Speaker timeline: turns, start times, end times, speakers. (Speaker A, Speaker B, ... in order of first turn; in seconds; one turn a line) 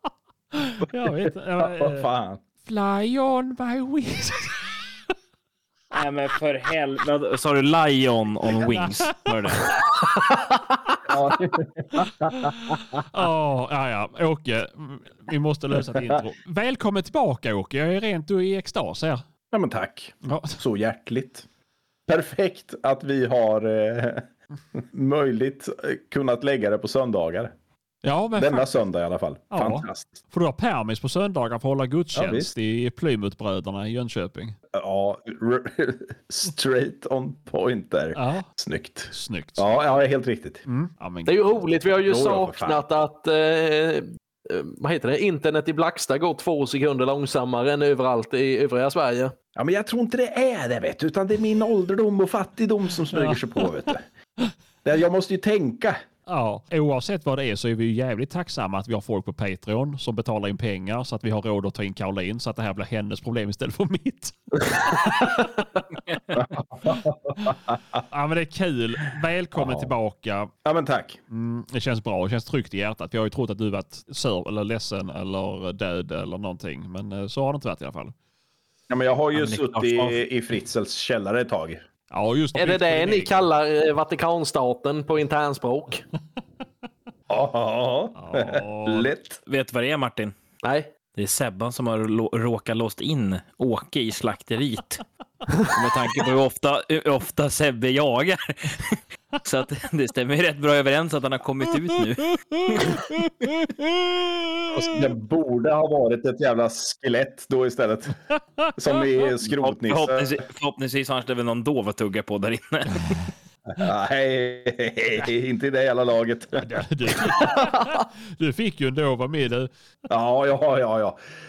Speaker A: 0.5-2.1
Speaker B: 0.8-2.4
Speaker A: 2.6-4.7
Speaker C: 5.9-9.7
Speaker A: 8.7-9.8
Speaker D: 10.1-10.5
Speaker B: 11.1-13.0
Speaker A: 12.0-19.2
Speaker B: 19.5-21.5
Speaker A: 20.2-20.6
Speaker B: 22.1-27.5
Speaker A: 28.0-28.8
Speaker B: 28.4-30.1
Speaker A: 29.5-34.6
Speaker B: 32.1-32.5
Speaker B: 34.7-40.6
Speaker A: 38.1-38.5
Speaker A: 39.1-39.7
Speaker A: 40.7-41.4
Speaker D: 41.3-49.3
Speaker B: 42.1-42.8
Speaker B: 49.5-54.1
Speaker B: 54.9-56.0
Speaker A: 56.3-65.5
Speaker B: 66.3-68.0
Speaker A: 68.0-70.5
Speaker B: 69.5-69.9
Speaker B: 70.6-71.2
Speaker A: 71.3-78.1
Speaker B: 78.9-81.8
Speaker C: 79.3-80.2
Speaker A: 82.1-83.5
Speaker D: 82.6-86.0
Speaker B: 87.3-89.4
Speaker A: 88.2-89.1
Speaker C: 89.5-90.3
Speaker D: 90.6-90.9
Speaker C: 91.2-95.0
Speaker C: 95.7-103.0
Speaker A: 102.3-104.8
Speaker B: 104.7-108.2
Speaker B: 108.8-110.3
Speaker C: 109.6-113.2
Speaker B: 113.7-117.6
Speaker A: 116.6-119.7
Speaker B: 120.1-121.2